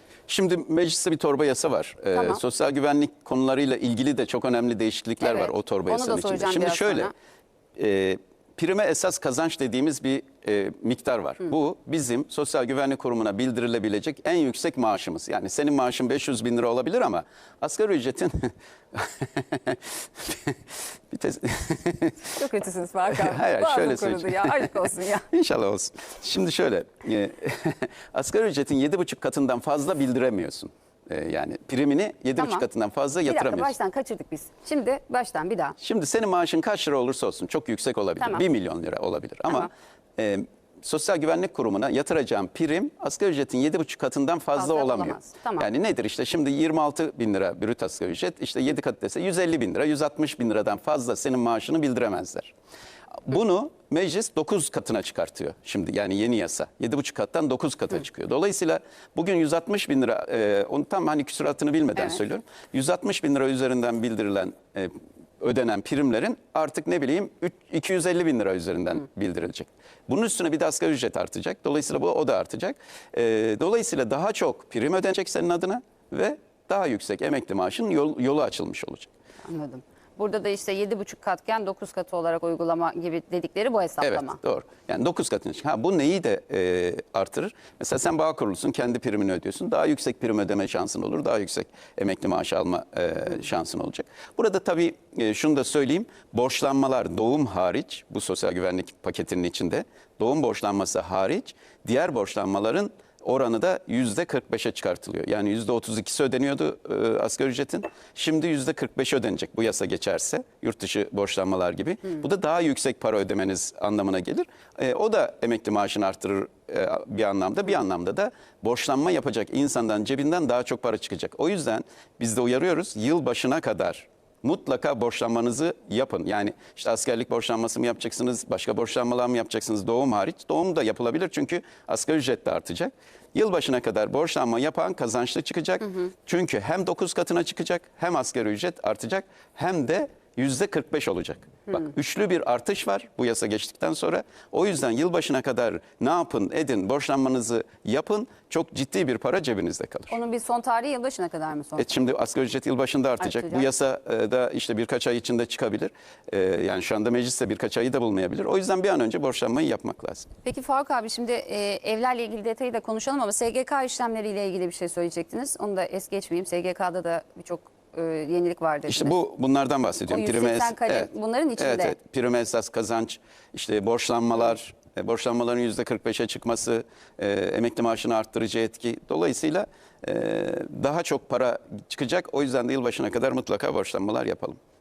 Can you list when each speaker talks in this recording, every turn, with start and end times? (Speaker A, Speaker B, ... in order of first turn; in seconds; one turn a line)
Speaker A: 0.3-7.1
Speaker B: 2.1-2.4
Speaker B: 5.2-7.1
Speaker A: 7.8-20.6
Speaker A: 21.1-22.4
Speaker B: 22.3-25.3
Speaker A: 23.1-33.7
Speaker B: 32.4-32.7
Speaker B: 33.3-35.8
Speaker A: 35.8-52.5
Speaker B: 44.5-45.7
Speaker A: 53.2-79.1
Speaker B: 79.5-84.4
Speaker A: 84.0-150.2
Speaker B: 150.1-151.9
Speaker A: 151.8-160.3
Speaker B: 153.2-153.7
Speaker B: 160.4-169.2
Speaker A: 168.9-184.6
Speaker B: 170.1-172.0